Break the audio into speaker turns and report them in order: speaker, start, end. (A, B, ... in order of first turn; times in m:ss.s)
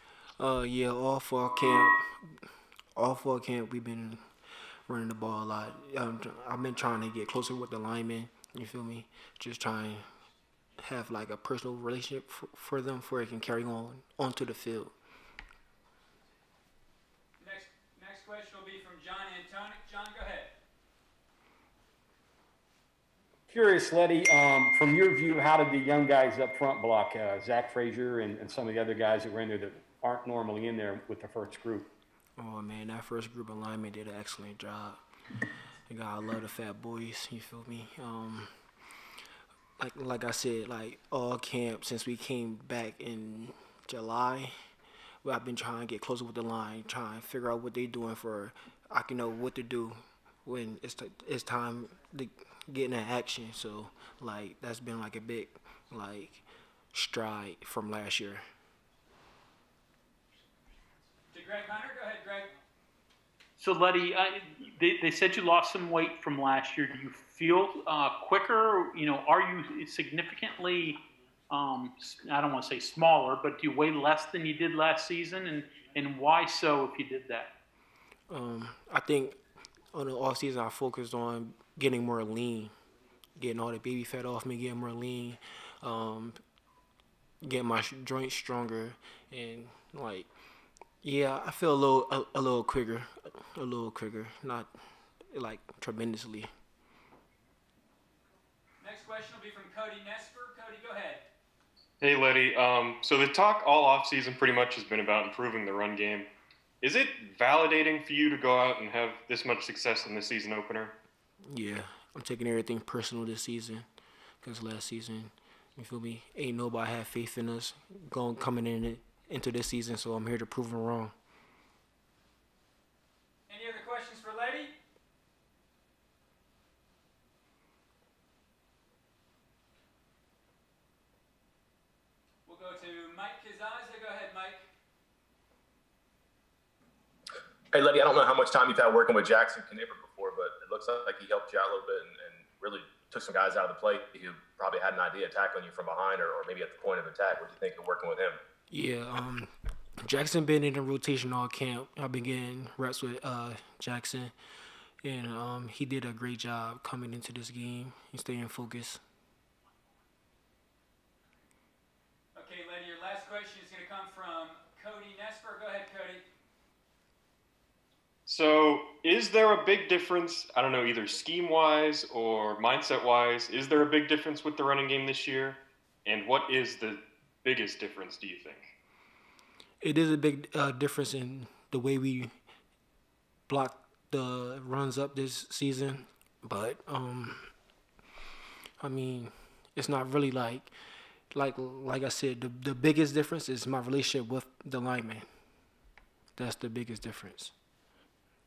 0:00.4-0:02.4 A
0:03.0-0:04.2 A
0:04.9-0:10.1 A
0:10.8-0:14.9 A
0:17.4-0:20.5 B
0:23.5-0:31.9 C
0:32.4-0:35.0 A
0:35.9-0:38.5 A
0:39.8-0:44.5 A
0:45.2-0:58.4 A
1:01.3-1:02.5 B
1:03.6-1:11.0 D
1:11.5-1:17.5 D
1:18.3-1:19.4 A
1:19.9-1:22.7 A
1:23.4-1:26.4 A
1:27.4-1:30.3 A
1:31.0-1:34.7 A
1:35.3-1:36.5 A
1:38.8-1:41.2 B
1:42.0-1:46.3 E
1:46.8-1:50.9 E
1:51.5-1:53.8 A
1:54.4-2:01.1 A
2:03.5-2:04.7 B
2:12.4-2:14.6 B
2:17.7-2:28.4 F
2:28.7-2:29.5 A
2:30.0-2:34.3 A
2:35.0-2:39.0 A
2:42.3-2:46.2 B
2:48.2-2:58.7 E
2:59.8-3:02.3 A
3:03.5-3:07.5 A
3:08.8-3:10.7 A
3:11.3-3:15.2 A
3:16.4-3:17.5 A